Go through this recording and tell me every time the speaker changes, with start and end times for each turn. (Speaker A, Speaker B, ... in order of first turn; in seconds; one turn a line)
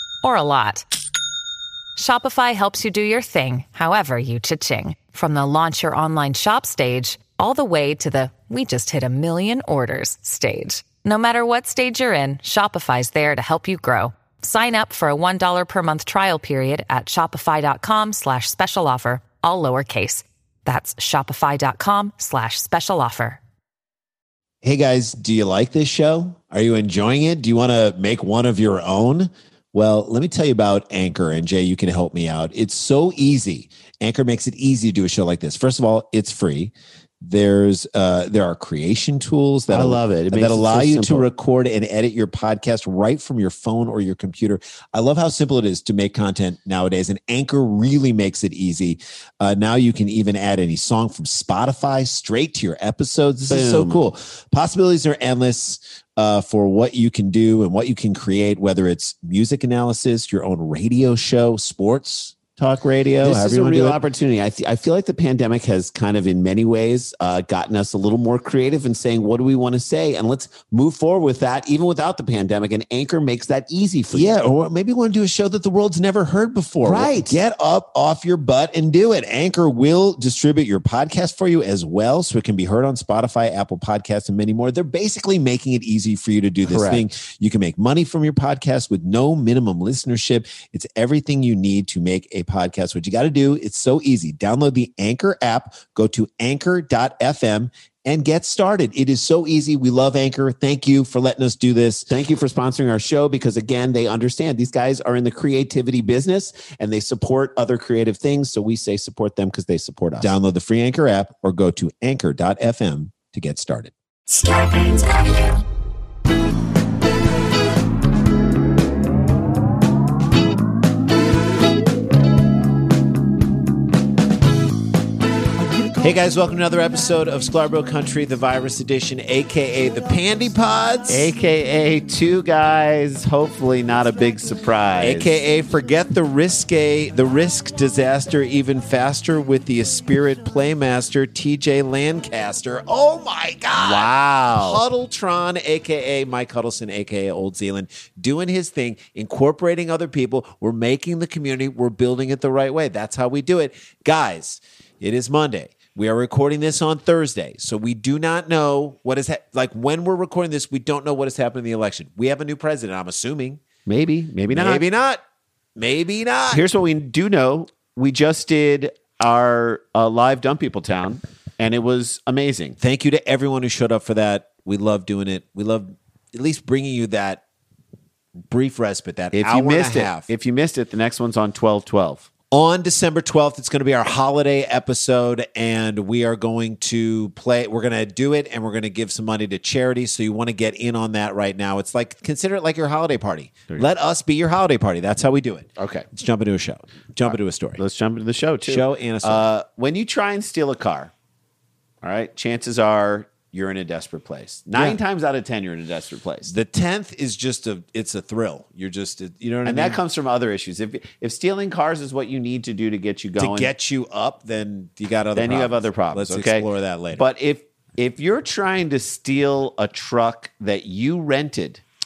Speaker A: 0.2-0.8
Speaker A: 1.9-23.4
Speaker B: 24.6-62.4
Speaker C: 39.7-41.2
Speaker C: 53.5-54.0
Speaker C: 62.6-74.4
Speaker B: 63.2-64.0
Speaker B: 74.1-102.1
Speaker C: 76.8-77.4
Speaker C: 86.7-87.1
Speaker C: 102.1-110.3
Speaker B: 110.2-115.0
Speaker B: 125.9-131.3
Speaker C: 131.1-135.4
Speaker B: 135.0-163.6
Speaker C: 143.8-144.8
Speaker C: 163.8-164.8
Speaker B: 164.5-165.2
Speaker B: 165.8-166.6
Speaker C: 166.5-172.8
Speaker B: 172.8-177.4
Speaker B: 178.4-180.3
Speaker C: 179.3-182.3
Speaker B: 182.5-197.8
Speaker C: 195.8-196.1
Speaker C: 197.2-201.1
Speaker B: 198.7-199.4
Speaker C: 202.0-206.5
Speaker B: 204.7-205.0
Speaker B: 206.5-210.0
Speaker C: 209.6-213.7
Speaker B: 213.4-217.2
Speaker C: 215.3-221.8